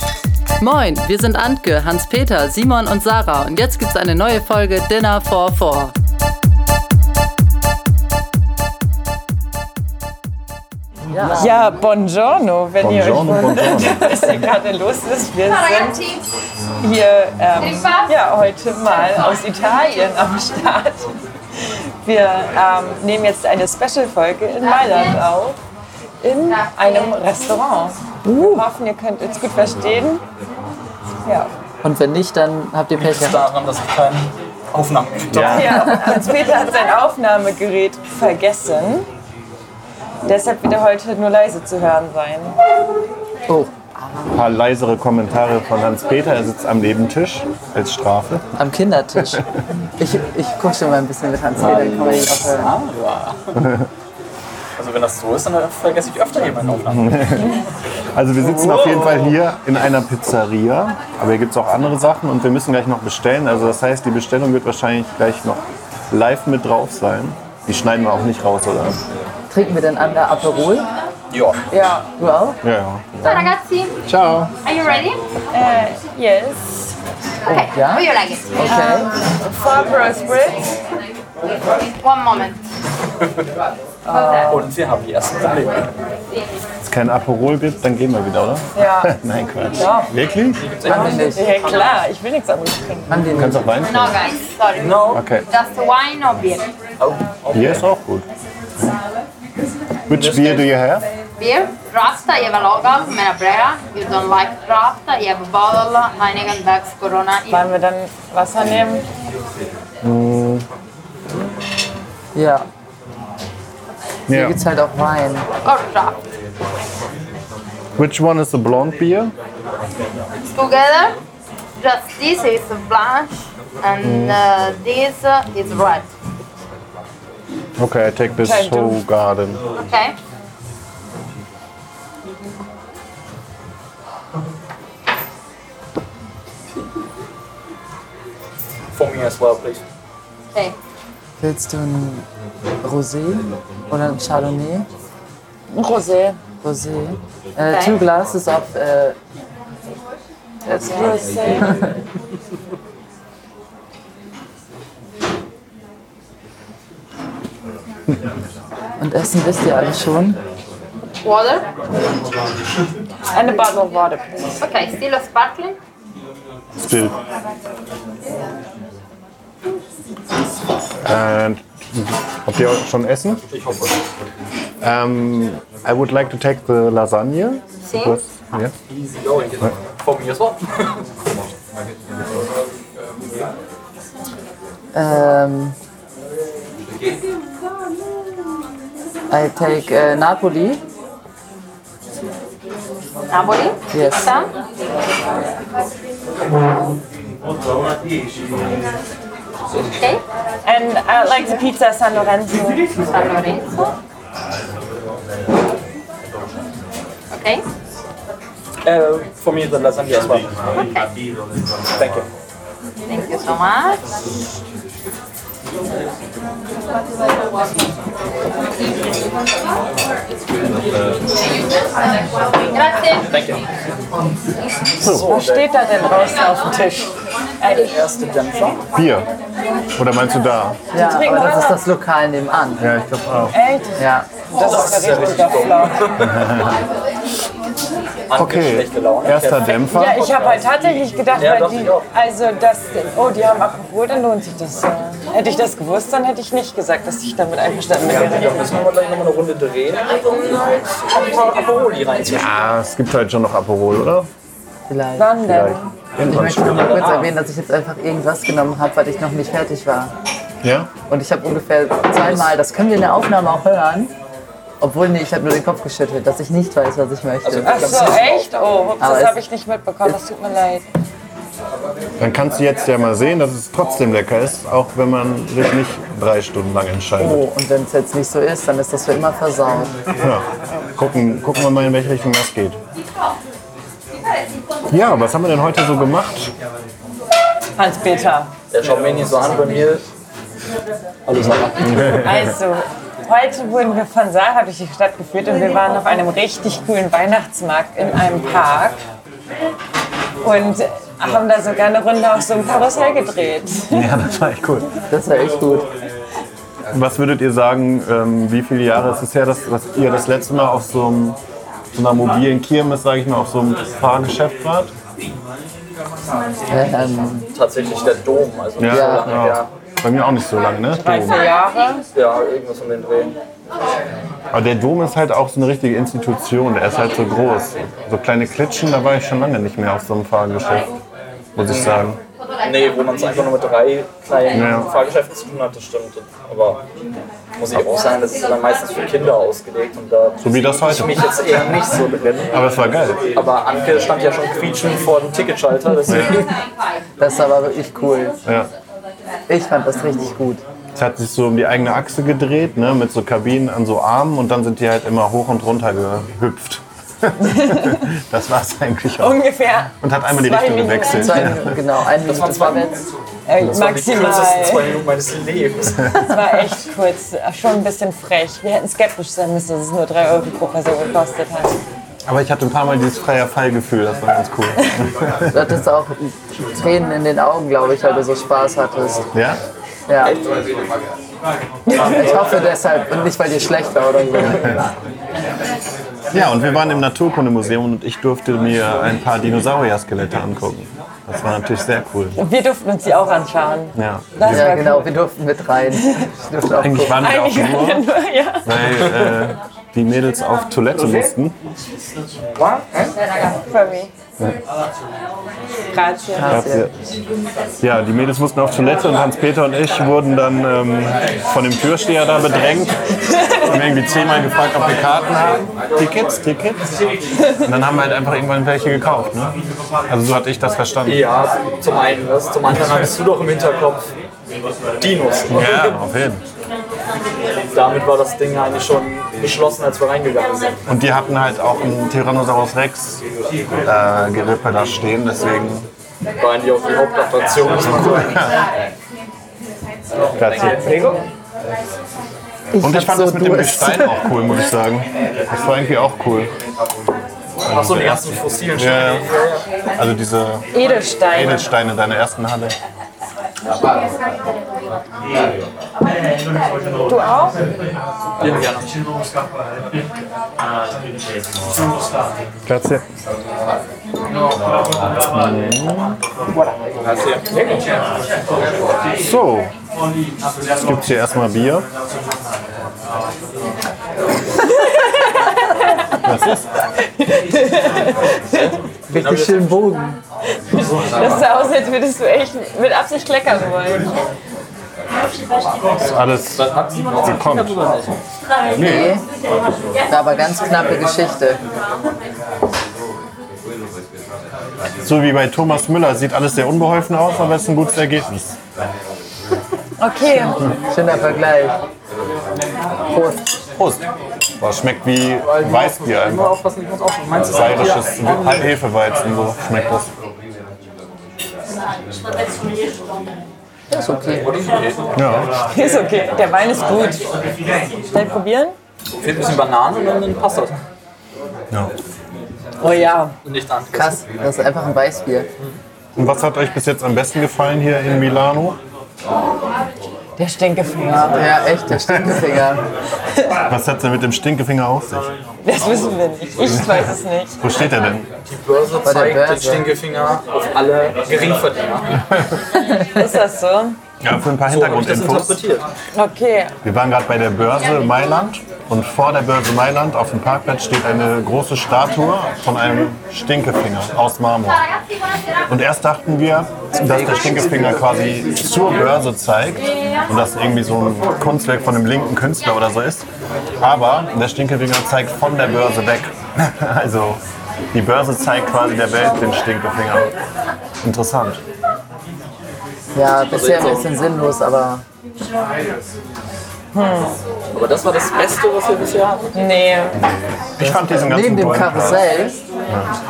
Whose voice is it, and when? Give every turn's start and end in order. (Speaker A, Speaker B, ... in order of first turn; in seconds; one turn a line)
Speaker A: 0.6-5.9
Speaker A: 11.1-11.7
Speaker B: 11.3-16.0
Speaker C: 12.8-14.5
Speaker B: 16.8-21.1
Speaker B: 21.6-25.6
Speaker B: 26.2-30.2
Speaker A: 28.2-28.6
Speaker A: 31.8-33.4
Speaker D: 32.9-35.7
Speaker C: 35.3-35.8
Speaker A: 35.4-36.3
Speaker B: 35.5-39.1
Speaker B: 40.2-42.5
Speaker A: 43.5-44.4
Speaker C: 44.3-48.5
Speaker A: 48.6-49.4
Speaker A: 50.0-52.7
Speaker D: 51.6-53.6
Speaker C: 53.5-53.9
Speaker D: 54.8-57.3
Speaker C: 56.8-57.6
Speaker C: 58.1-69.0
Speaker D: 58.4-59.3
Speaker A: 69.5-70.9
Speaker D: 71.3-71.6
Speaker B: 71.7-72.1
Speaker A: 72.2-72.6
Speaker C: 72.6-73.5
Speaker E: 73.2-74.0
Speaker C: 74.0-74.5
Speaker E: 74.6-75.2
Speaker B: 75.5-76.9
Speaker A: 77.5-79.1
Speaker E: 77.5-78.7
Speaker B: 78.7-80.6
Speaker E: 82.0-82.6
Speaker B: 84.0-84.7
Speaker D: 84.5-85.9
Speaker C: 86.8-90.6
Speaker B: 88.8-89.1
Speaker B: 89.7-90.1
Speaker D: 90.6-91.5
Speaker A: 90.8-91.4
Speaker B: 90.8-93.2
Speaker A: 93.1-93.7
Speaker C: 93.3-94.2
Speaker E: 93.8-96.7
Speaker D: 94.8-95.2
Speaker C: 95.1-95.4
Speaker D: 97.0-97.8
Speaker C: 97.5-98.2
Speaker C: 100.1-101.0
Speaker D: 100.1-100.7
Speaker E: 101.4-107.7
Speaker B: 107.5-109.0
Speaker C: 110.0-110.7
Speaker A: 112.3-112.7
Speaker C: 114.3-114.6
Speaker A: 114.3-115.5
Speaker E: 115.6-116.2
Speaker C: 118.0-119.3
Speaker E: 120.5-121.2
Speaker E: 121.8-126.0
Speaker C: 124.0-124.4
Speaker C: 127.8-129.6
Speaker B: 128.4-129.0
Speaker E: 129.8-130.1
Speaker D: 138.9-139.8
Speaker A: 141.4-142.2
Speaker A: 142.8-144.8
Speaker B: 145.7-146.4
Speaker A: 146.6-149.2
Speaker E: 147.7-148.0
Speaker B: 150.7-151.7
Speaker A: 150.7-151.9
Speaker A: 159.0-160.4
Speaker E: 161.2-161.6
Speaker B: 163.3-164.3
Speaker E: 164.6-165.8
Speaker C: 166.8-167.1
Speaker C: 171.0-173.4
Speaker D: 173.5-174.0
Speaker C: 174.8-178.7
Speaker E: 177.8-178.2
Speaker D: 178.9-181.0
Speaker A: 184.9-185.7
Speaker A: 189.3-190.8
Speaker E: 193.3-194.5
Speaker A: 193.9-194.3
Speaker B: 200.6-202.8
Speaker E: 203.1-203.9
Speaker E: 207.3-207.6
Speaker D: 208.8-210.5
Speaker E: 210.8-211.1
Speaker D: 211.9-212.3
Speaker E: 213.1-214.0
Speaker D: 220.5-221.2
Speaker E: 222.8-223.2
Speaker D: 223.3-223.6
Speaker D: 225.0-225.7
Speaker C: 225.0-225.3
Speaker B: 225.2-227.1
Speaker B: 227.6-227.9
Speaker D: 227.6-228.8
Speaker C: 228.9-229.3
Speaker C: 229.9-230.8
Speaker B: 230.9-231.8
Speaker A: 230.9-232.8
Speaker C: 232.8-233.5
Speaker B: 233.5-236.1
Speaker A: 234.0-234.2
Speaker D: 234.5-236.3
Speaker C: 236.2-236.8
Speaker D: 238.3-240.7
Speaker C: 238.3-240.2
Speaker B: 239.8-248.7
Speaker D: 241.3-242.1
Speaker D: 248.0-252.5
Speaker C: 252.2-254.3
Speaker A: 254.9-255.4
Speaker B: 255.2-255.9
Speaker C: 255.4-257.1
Speaker A: 256.2-260.1
Speaker D: 256.6-257.3
Speaker C: 260.6-260.9
Speaker A: 261.1-264.1
Speaker D: 262.1-262.5
Speaker A: 264.8-268.0
Speaker D: 267.4-268.5
Speaker B: 267.6-270.9
Speaker A: 269.0-269.4
Speaker C: 272.2-277.4
Speaker A: 277.2-279.9
Speaker C: 280.2-282.8
Speaker C: 284.9-286.5
Speaker B: 287.8-288.5
Speaker D: 288.7-290.0
Speaker D: 291.2-292.3
Speaker C: 291.4-292.5
Speaker B: 292.2-299.0
Speaker B: 300.4-304.1
Speaker C: 303.9-304.9
Speaker A: 305.1-305.9
Speaker C: 306.9-311.4
Speaker C: 311.9-314.9
Speaker A: 316.7-317.5
Speaker D: 317.5-319.7
Speaker C: 318.8-321.4
Speaker A: 318.9-319.4
Speaker B: 320.9-322.0
Speaker D: 322.1-323.3
Speaker C: 324.5-330.9
Speaker C: 331.5-332.2
Speaker D: 331.6-332.1
Speaker D: 332.6-336.8
Speaker C: 334.5-334.9
Speaker D: 337.6-342.6
Speaker C: 340.4-341.3
Speaker C: 342.5-343.2
Speaker D: 343.3-346.6
Speaker C: 346.1-346.4
Speaker A: 347.2-348.4
Speaker A: 349.5-350.6
Speaker C: 350.9-359.4
Speaker B: 357.4-358.1
Speaker B: 359.2-361.6
Speaker C: 360.0-361.8
Speaker A: 361.1-363.0
Speaker D: 362.2-366.0
Speaker B: 363.4-364.9
Speaker B: 366.1-371.8
Speaker C: 372.2-375.8
Speaker A: 375.5-379.3
Speaker C: 379.3-379.6
Speaker A: 380.1-380.4
Speaker B: 381.9-382.3
Speaker A: 381.9-384.8
Speaker C: 386.3-392.4
Speaker B: 392.4-395.1
Speaker C: 393.9-394.8
Speaker A: 394.5-397.2
Speaker B: 396.0-396.2
Speaker C: 396.7-398.1
Speaker B: 397.1-398.8
Speaker C: 398.6-401.6
Speaker D: 402.6-403.1
Speaker B: 403.7-404.1
Speaker B: 405.9-406.6
Speaker A: 406.4-406.9
Speaker C: 406.5-406.9
Speaker C: 407.8-413.0
Speaker B: 413.3-413.8
Speaker C: 413.7-416.8
Speaker C: 417.6-419.5
Speaker C: 420.1-421.2
Speaker D: 421.1-424.0
Speaker D: 425.0-425.7
Speaker C: 425.5-426.4
Speaker D: 427.7-430.7
Speaker C: 430.9-433.2
Speaker C: 433.8-435.9
Speaker D: 436.4-438.4
Speaker C: 438.2-438.5
Speaker D: 440.2-441.2
Speaker C: 440.4-440.8
Speaker B: 440.6-441.2
Speaker A: 442.7-444.3
Speaker C: 442.8-446.5
Speaker C: 447.6-449.2
Speaker D: 447.6-449.6
Speaker C: 449.9-450.6
Speaker B: 450.7-451.7
Speaker C: 451.3-452.7
Speaker B: 457.1-457.6
Speaker D: 458.4-458.9
Speaker C: 462.6-463.0
Speaker C: 465.2-466.2
Speaker D: 466.5-467.8
Speaker C: 469.2-469.7
Speaker C: 470.8-471.9
Speaker B: 474.6-476.3
Speaker C: 476.2-476.7
Speaker B: 477.0-478.8
Speaker D: 479.1-479.8
Speaker A: 479.1-480.2
Speaker B: 480.7-484.1
Speaker C: 486.1-486.7
Speaker D: 486.5-488.2
Speaker C: 487.2-487.8
Speaker C: 488.7-489.1
Speaker A: 488.7-489.2
Speaker A: 490.1-491.6
Speaker C: 495.0-498.5
Speaker B: 500.0-500.6
Speaker A: 500.2-501.8
Speaker A: 503.1-503.4
Speaker C: 503.8-504.0
Speaker C: 504.6-506.6
Speaker D: 505.4-508.7
Speaker C: 507.4-510.1
Speaker A: 513.9-514.5
Speaker D: 514.4-515.0
Speaker C: 515.1-515.5
Speaker B: 515.7-517.2
Speaker B: 518.1-518.8
Speaker D: 519.2-520.7
Speaker B: 522.8-523.3
Speaker D: 523.4-524.2
Speaker A: 523.9-525.5
Speaker C: 526.1-528.8
Speaker B: 530.4-531.5
Speaker A: 531.1-532.8
Speaker C: 531.9-532.6
Speaker C: 533.7-535.3
Speaker B: 535.6-537.6
Speaker C: 536.6-538.3
Speaker D: 538.4-542.2
Speaker A: 539.0-539.9
Speaker B: 543.1-544.0
Speaker C: 544.2-545.6
Speaker D: 544.7-545.9
Speaker B: 546.1-546.7
Speaker C: 546.8-554.8
Speaker C: 555.7-563.2
Speaker A: 557.0-558.0
Speaker C: 563.8-567.4
Speaker C: 567.9-570.3
Speaker C: 571.0-571.6
Speaker A: 573.1-575.0
Speaker D: 573.5-574.1
Speaker B: 576.9-577.4
Speaker D: 577.7-579.5
Speaker B: 579.5-580.2
Speaker C: 580.1-582.2
Speaker A: 580.8-582.6